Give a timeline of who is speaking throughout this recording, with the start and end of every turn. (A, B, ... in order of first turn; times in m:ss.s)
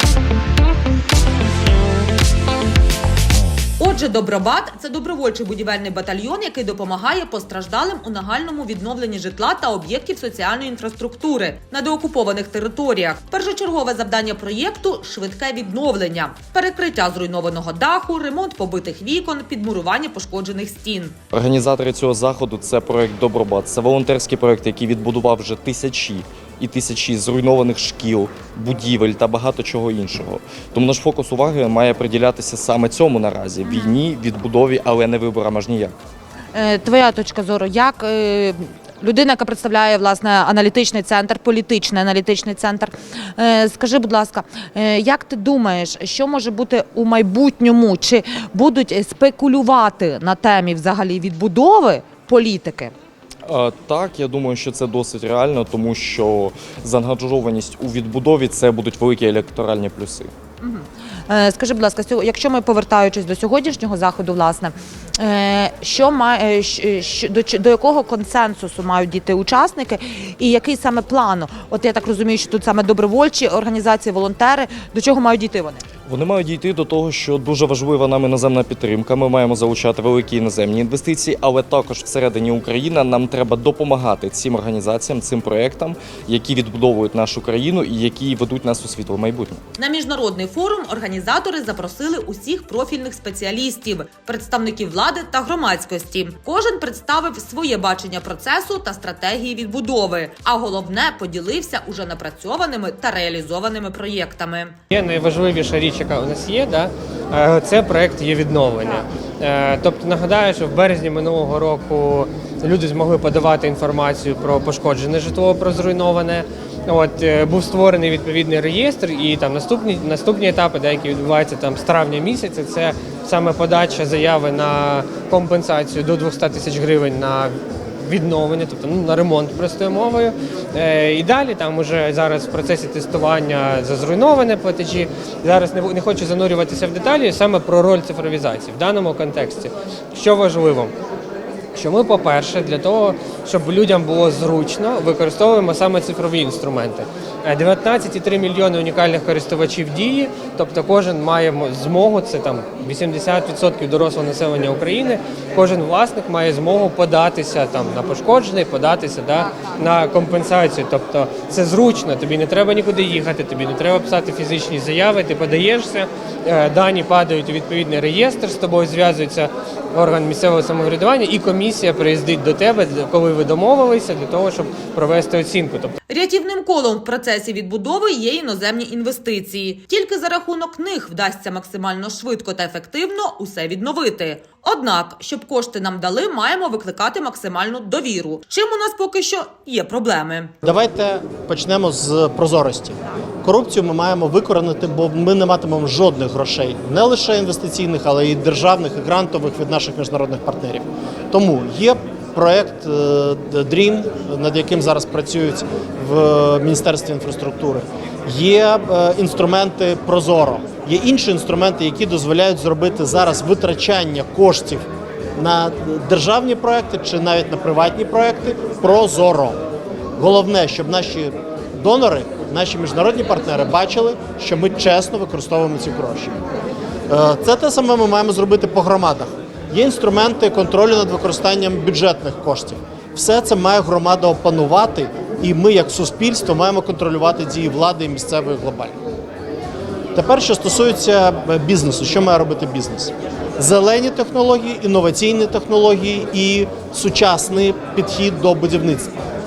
0:03.8-0:21.1 A
0:21.3-0:36.0 B
0:33.6-0:34.0 A
0:36.5-0:52.9 A
0:53.4-1:00.3 B
1:00.6-1:15.8 A
1:16.1-1:29.6 B
1:29.8-1:44.8 A
1:44.9-2:20.9 C
2:21.7-2:55.9 C
2:56.1-3:10.5 A
3:10.6-3:39.6 D
3:40.2-3:46.3 D
3:47.1-3:59.0 D
4:00.1-4:09.2 D